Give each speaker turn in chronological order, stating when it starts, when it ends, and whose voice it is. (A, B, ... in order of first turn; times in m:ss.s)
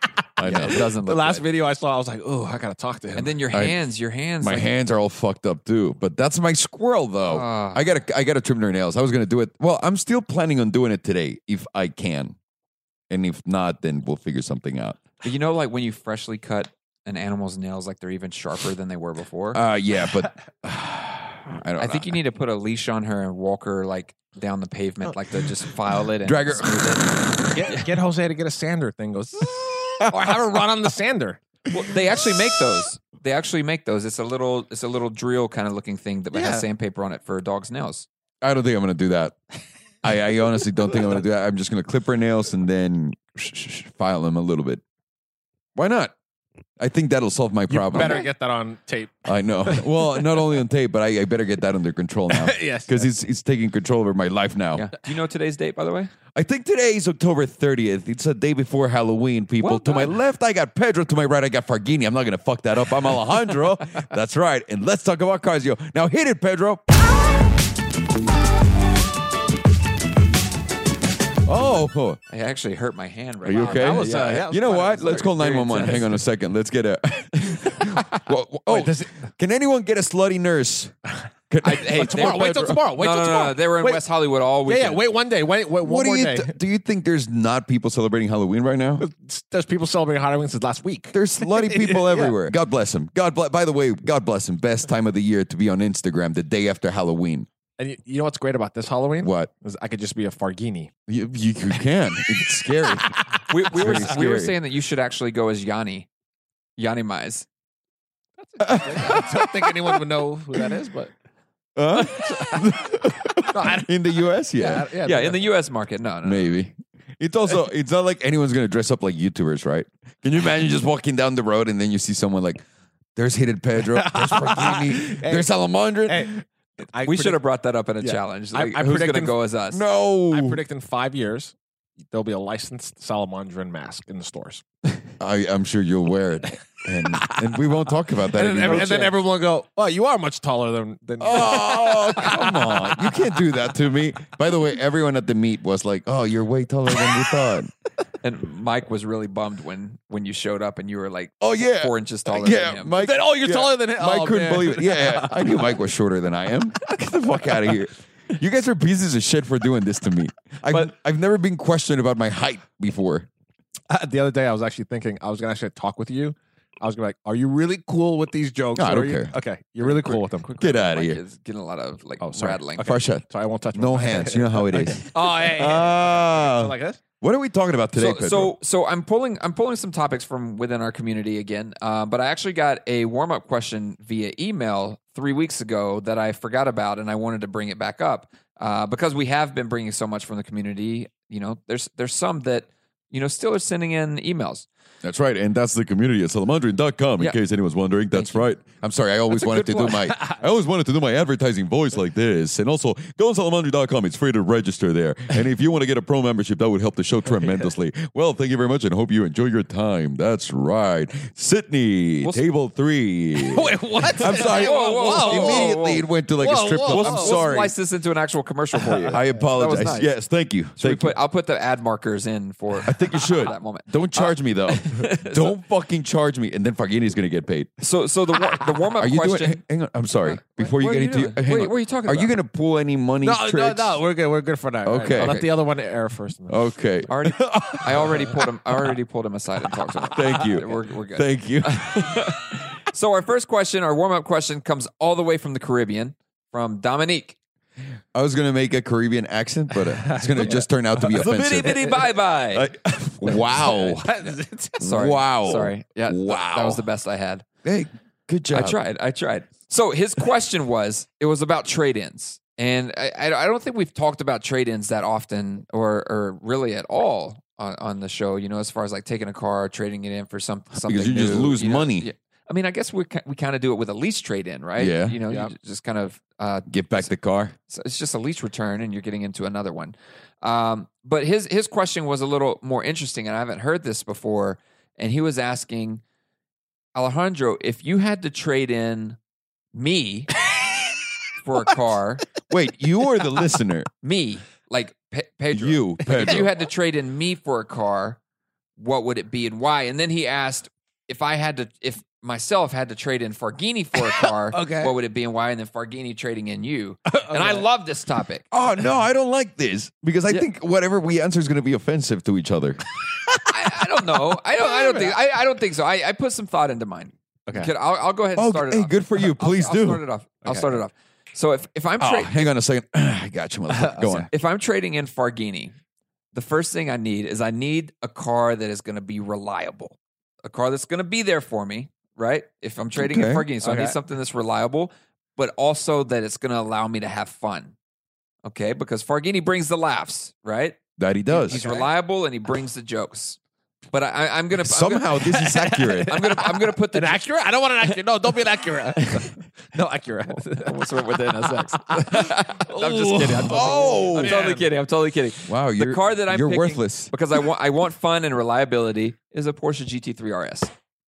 0:00.4-0:00.8 A
0:00.4-0:01.4 B
0:00.4-0:03.4 C
0:03.1-0:04.7 B
0:04.4-0:12.4 A
0:07.3-0:08.0 B
0:13.1-0:15.0 A
0:15.2-0:19.6 B
0:19.5-0:22.2 A
0:21.8-0:27.1 B
0:26.2-0:27.1 A
0:27.4-0:31.4 C
0:30.0-0:30.3 A
0:31.7-0:38.1 B
0:36.3-0:36.7 C
0:38.4-0:39.4 A
0:40.0-0:44.8 A
0:45.8-0:46.1 A
0:46.8-0:48.2 A
0:47.7-0:50.5 C
0:49.2-0:54.9 A
0:52.3-0:53.1 C
0:54.8-0:56.1 B
0:56.3-1:06.9 A
0:59.6-1:00.1 B
1:11.4-1:12.2 A
1:12.3-1:16.2 B
1:13.4-1:20.9 A
1:13.6-1:15.3 C
1:18.7-1:19.1 C
1:21.5-1:22.8 A
1:21.6-1:25.0 B
1:21.9-1:24.0 C
1:24.7-1:26.6 C
1:25.8-1:29.0 A
1:29.0-1:32.4 C
1:31.1-1:37.5 A
1:37.8-1:40.9 C
1:39.2-1:39.5 A
1:41.1-1:44.6 A
1:43.5-1:46.1 B
1:46.8-1:47.5 B
1:48.5-1:51.1 C
1:48.6-1:50.0 A
1:51.8-1:54.9 A
1:52.0-1:52.8 C
1:53.5-1:53.9 C
1:54.6-1:55.5 C
1:55.0-1:56.5 B
1:56.2-2:02.6 A
2:03.2-2:06.4 A
2:03.8-2:05.5 C
2:06.1-2:06.4 C
2:06.9-2:07.4 C
2:07.0-2:09.8 B
2:08.0-2:09.4 C
2:09.7-2:10.6 A
2:10.3-2:11.6 C
2:12.1-2:14.6 C
2:15.2-2:19.2 A
2:17.1-2:17.6 C
2:18.2-2:23.5 C
2:18.6-2:19.1 B
2:21.2-2:27.7 A
2:27.0-2:27.2 C
2:28.2-2:32.9 B
2:31.4-2:43.3 A
2:33.0-2:35.8 C
2:43.9-2:50.7 C
2:48.8-2:49.3 A
2:49.8-2:52.9 B
2:50.6-2:51.2 A
2:52.2-2:57.0 C
2:52.8-2:58.6 A
2:57.9-3:14.7 B
3:15.0-3:37.7 A
3:18.1-3:18.5 B
3:19.3-3:20.4 C
3:27.3-3:27.7 C
3:33.4-3:35.8 C
3:34.2-3:36.1 B
3:36.4-3:37.5 C
3:36.8-3:39.2 B
3:38.7-3:40.1 C
3:39.1-3:41.2 A
3:40.8-3:45.6 B
3:42.8-3:47.7 A
3:47.8-3:49.6 B
3:48.9-3:54.0 A
3:50.3-3:52.3 B
3:53.2-3:56.6 C
3:54.8-3:55.4 A
3:55.2-3:55.6 B
3:56.5-3:58.9 A
3:57.1-4:07.4 B
4:00.1-4:00.6 C
4:00.1-4:02.4 A
4:08.1-4:14.2 A
4:09.8-4:12.0 C
4:11.1-4:12.7 B
4:13.3-4:14.9 C
4:14.8-4:16.8 A
4:14.8-4:17.4 B
4:17.6-4:18.8 A
4:18.5-4:37.1 B
4:30.8-4:32.1 A
4:34.8-4:35.2 A
4:36.7-4:37.5 A
4:37.7-4:46.0 B
4:46.9-4:49.2 B
4:49.7-4:50.3 B
4:51.4-4:52.2 B
4:52.4-4:53.9 A
4:54.0-4:58.2 B
4:55.5-4:56.5 A
4:58.8-5:08.4 B
5:04.0-5:04.9 C
5:07.1-5:07.7 C
5:08.5-5:12.8 A
5:13.3-5:15.2 C
5:13.4-5:22.5 B
5:17.5-5:17.7 C
5:18.4-5:20.0 A
5:20.4-5:20.8 C
5:22.0-5:24.3 A
5:23.7-5:24.3 C
5:24.3-5:25.7 B
5:26.3-5:37.7 B
5:33.0-5:33.5 A
5:33.6-5:34.0 C
5:38.4-5:40.8 B
5:41.0-5:41.6 A
5:41.3-5:41.9 C
5:41.4-5:43.4 B
5:43.9-5:45.3 B
5:44.6-5:46.2 A
5:45.2-5:54.7 C
5:46.1-5:47.2 B
5:50.4-6:00.7 B
5:53.4-5:54.4 A
5:55.5-5:57.1 A